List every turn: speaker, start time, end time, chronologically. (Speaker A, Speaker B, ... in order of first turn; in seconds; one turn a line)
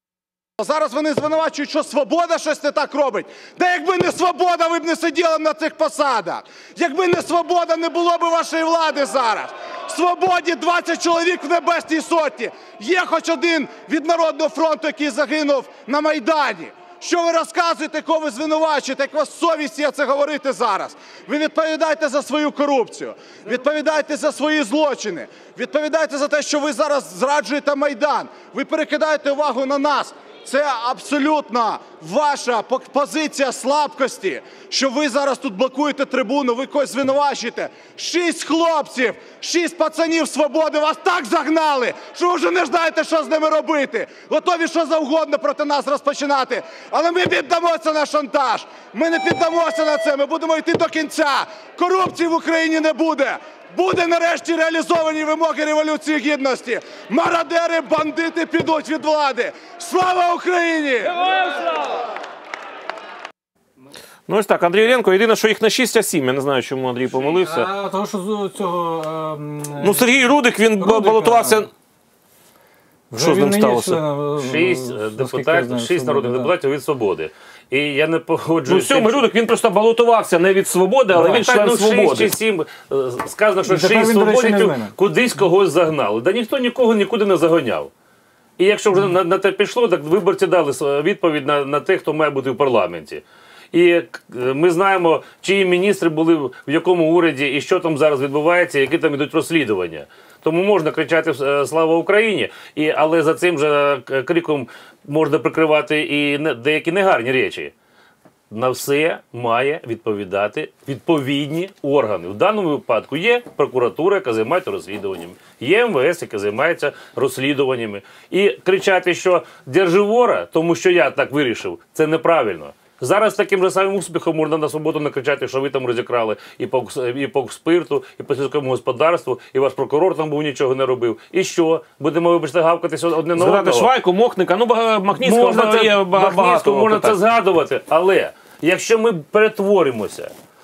Speaker A: 0.6-61.2
Speaker B: 64.3-67.7
Speaker C: 67.3-70.1
Speaker B: 69.8-71.7
Speaker C: 70.8-71.7
Speaker C: 73.1-76.5
Speaker B: 73.1-74.0
Speaker D: 74.4-79.2
Speaker B: 78.7-82.3
Speaker D: 81.2-87.9
Speaker C: 83.6-84.9
Speaker D: 88.6-107.7
Speaker D: 108.5-133.9
Speaker B: 133.3-137.2
Speaker D: 135.2-140.3